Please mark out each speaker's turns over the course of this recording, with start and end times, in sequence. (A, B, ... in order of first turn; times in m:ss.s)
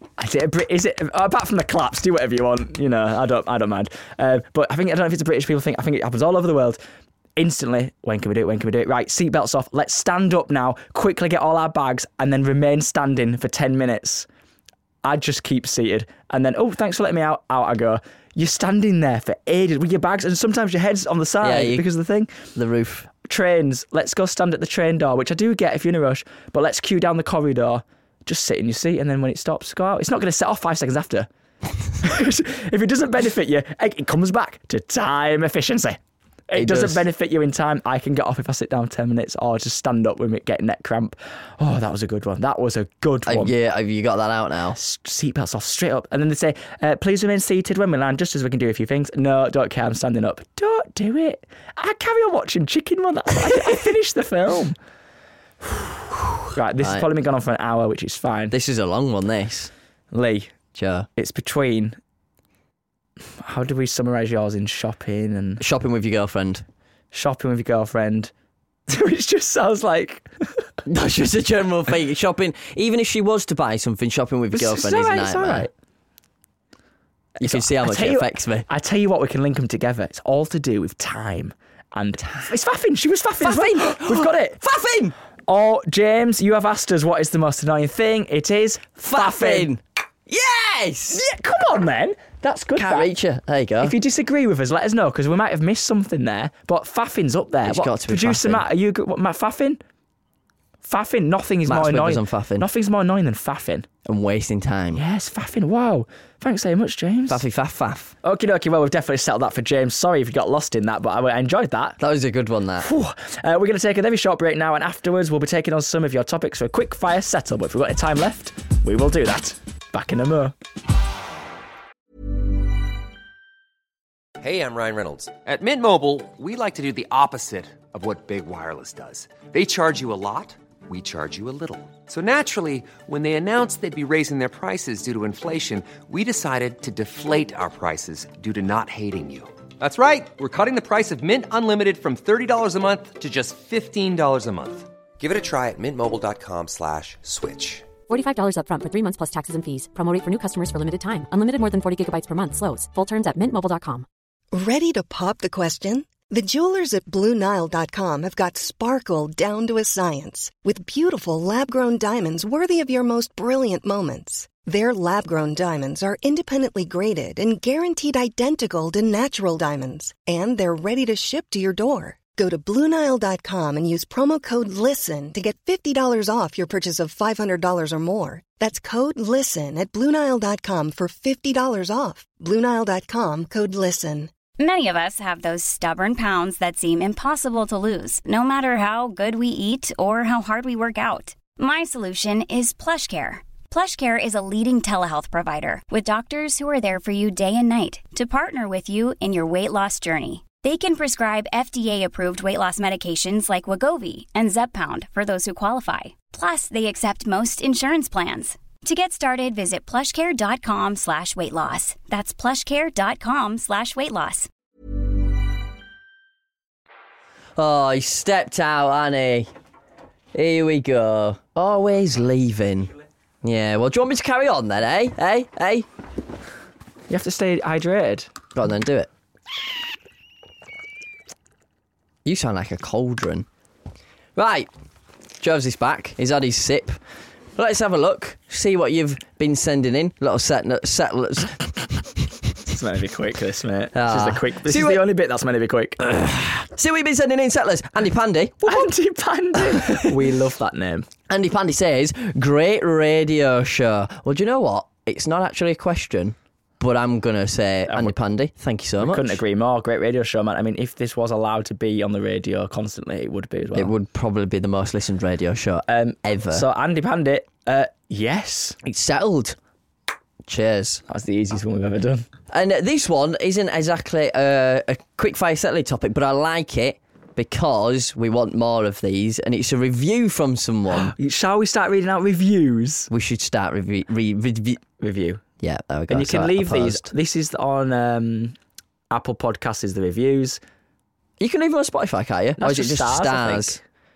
0:00.2-0:06.8 A
0:07.4-0:14.3 A
0:15.0-0:22.4 A
0:21.4-0:21.8 B
0:22.5-0:23.1 B
0:23.2-0:31.3 A
0:32.0-0:36.0 A
0:36.5-0:43.5 A
0:36.5-0:37.0 B
0:43.2-0:44.8 B
0:44.7-0:54.7 A
0:56.5-0:58.5 A
0:56.8-0:57.0 B
0:58.5-0:59.7 B
1:00.1-1:00.5 A
1:00.7-1:01.1 B
1:01.2-1:02.0 A
1:03.4-1:05.6 A
1:05.6-1:06.6 B
1:07.1-1:08.3 A
1:08.9-1:10.3 A
1:10.8-1:15.7 B
1:14.5-1:15.7 A
1:17.4-1:18.7 B
1:17.4-1:24.6 A
1:23.4-1:25.1 B
1:25.5-1:29.7 A
1:29.0-1:31.2 B
1:31.1-1:33.1 A
1:32.8-1:34.0 B
1:33.8-1:39.8 A
1:37.6-1:38.6 B
1:40.8-1:43.9 A
1:41.6-1:42.6 B
1:44.0-1:45.0 B
1:44.9-1:47.4 A
1:47.3-1:48.1 B
1:48.2-1:52.0 A
1:52.0-1:52.9 B
1:52.8-2:00.5 A
2:04.4-2:28.0 C
2:28.1-2:34.0 D
2:34.5-3:04.3 E
3:04.6-3:34.5 F
3:37.6-3:39.5 B
3:40.3-3:45.9 B
3:47.1-3:48.3 A
3:48.5-3:49.1 B
3:52.2-3:53.4 B
3:54.4-3:54.7 B
3:55.4-3:57.0 B
3:57.6-4:02.2 B
4:02.7-4:06.0 A
4:03.9-4:05.0 B
4:06.0-4:08.9 B
4:08.6-4:11.0 A
4:09.5-4:10.1 B
4:11.3-4:19.4 B
4:17.9-4:18.2 A
4:19.0-4:23.9 A
4:23.7-4:26.6 B
4:25.9-4:28.8 A
4:28.8-4:29.6 B
4:30.4-4:31.0 B
4:31.1-4:32.2 A
4:32.5-4:41.1 B
4:40.9-4:43.1 A
4:43.1-4:44.8 B
4:45.0-4:45.4 A
4:45.6-4:47.1 B
4:46.1-4:48.6 A
4:49.1-4:50.6 A
4:51.4-4:53.8 B
4:52.6-4:53.8 A